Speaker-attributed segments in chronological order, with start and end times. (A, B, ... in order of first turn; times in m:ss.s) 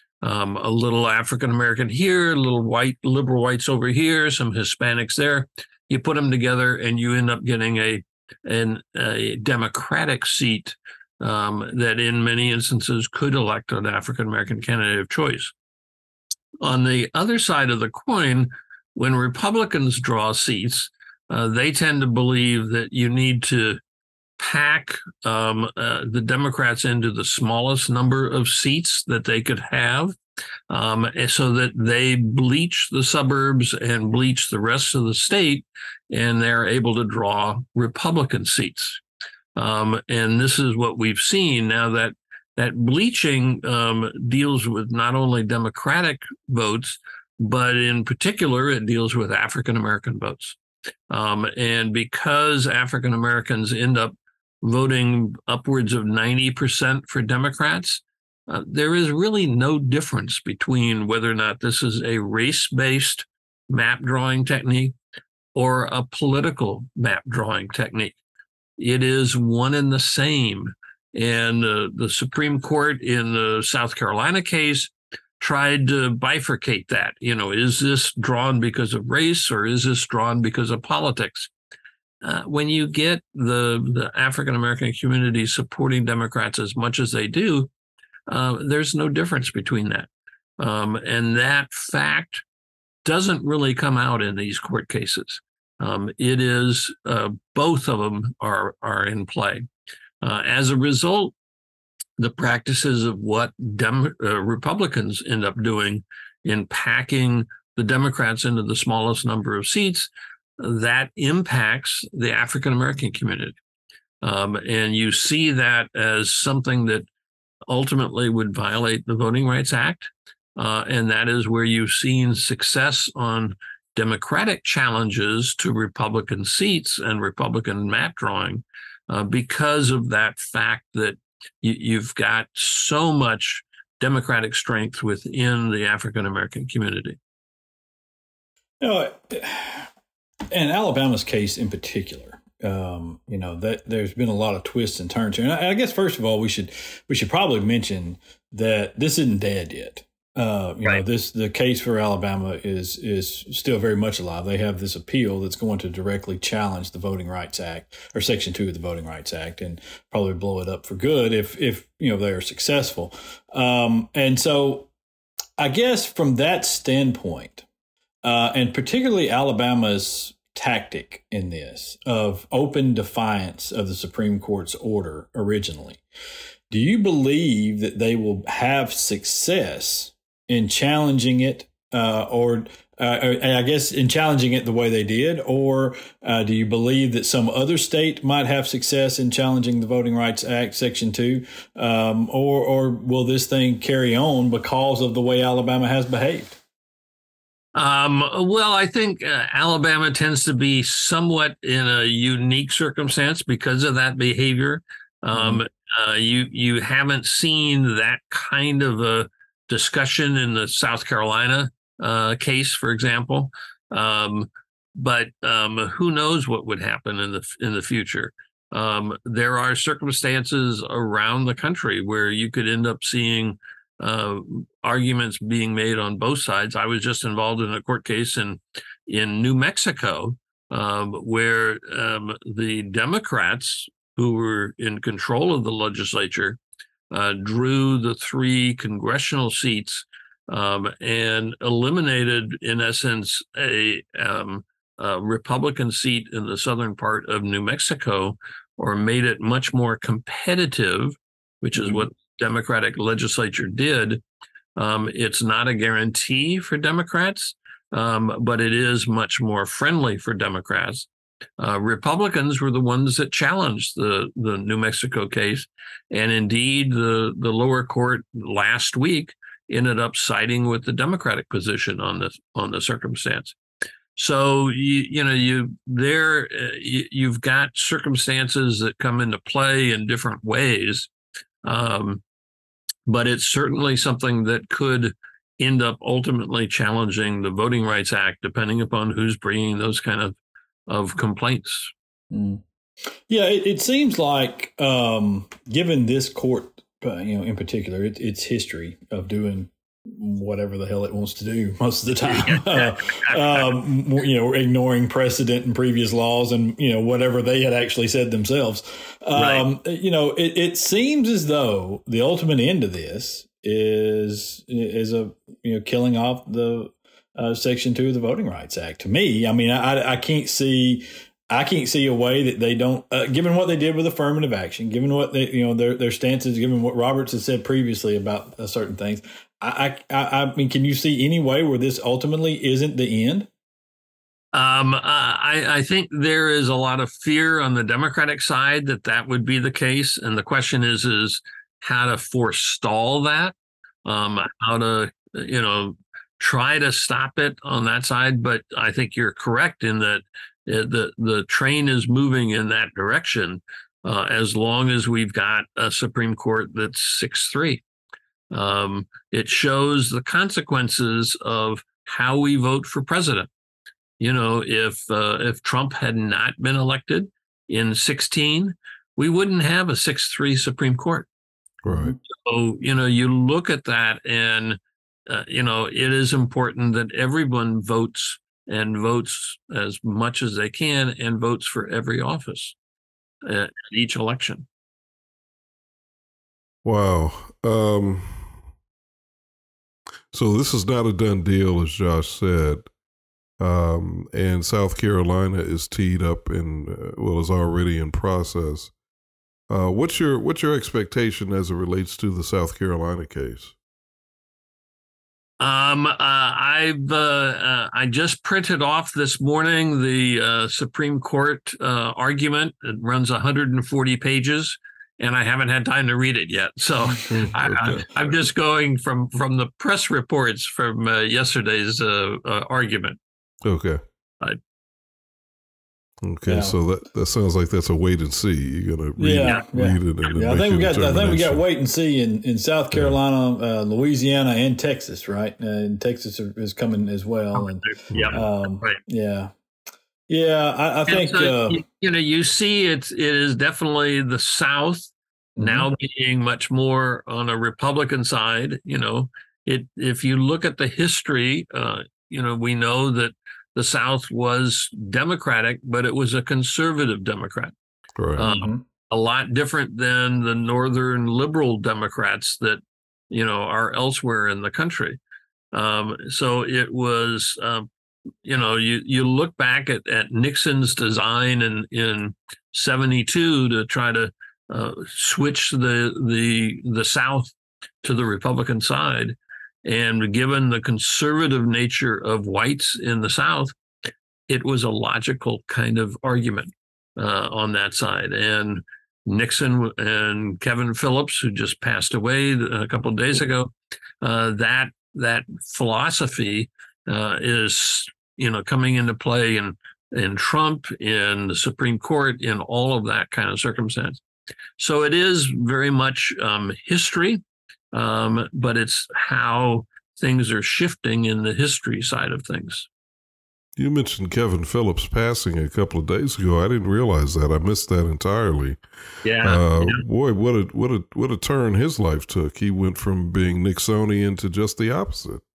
0:00.2-0:15.5 A
0:16.6-0:23.8 A
0:24.4-0:30.2 A
0:30.7-0:39.0 A
0:39.6-0:50.6 A
0:51.1-1:04.9 A
1:05.6-1:08.2 A
1:08.8-1:21.5 A
1:22.2-1:27.7 A
1:28.3-1:32.4 A
1:33.0-1:39.7 A
1:40.2-1:41.3 A
1:42.2-1:53.6 A
1:54.2-1:57.0 A
1:57.7-2:17.2 A
2:18.8-2:19.9 B
2:20.5-2:44.9 B
2:45.6-2:47.6 B
2:48.2-2:56.0 B
2:56.7-3:16.6 B
3:17.8-3:56.6 A
3:25.3-3:25.6 B
3:57.1-4:14.2 A
4:14.8-4:33.6 A
4:34.2-4:41.1 A
4:41.6-4:42.2 A
4:43.0-4:50.4 A
4:50.9-4:51.9 A
4:52.3-4:52.6 B
4:53.3-5:33.5 B
5:02.2-5:03.8 A
5:09.4-5:09.6 A
5:34.5-5:57.8 A
5:58.5-6:03.5 A
6:04.2-6:11.3 A
6:11.8-6:12.2 C
6:12.2-6:22.8 A
6:23.4-6:24.7 A
6:26.8-6:28.5 C
6:30.3-6:32.9 C
6:33.6-6:38.9 C
6:39.7-6:43.7 C
6:45.6-7:03.2 A
6:57.3-6:58.1 C
7:03.6-7:04.0 C
7:06.2-7:11.6 C
7:06.5-7:06.8 B
7:09.2-7:19.5 B
7:17.6-7:19.0 A
7:18.1-7:18.4 C
7:20.3-7:21.8 B
7:21.1-7:37.7 A
7:25.6-7:25.9 B
7:38.2-7:38.5 C
7:38.4-7:45.2 A
7:38.5-7:38.8 B
7:45.7-7:47.9 A
7:48.4-7:57.5 A
7:58.0-8:03.7 A
8:04.5-8:24.2 A
8:24.8-8:32.9 A
8:33.8-8:38.8 C
8:39.2-8:40.0 A
8:39.4-8:45.4 C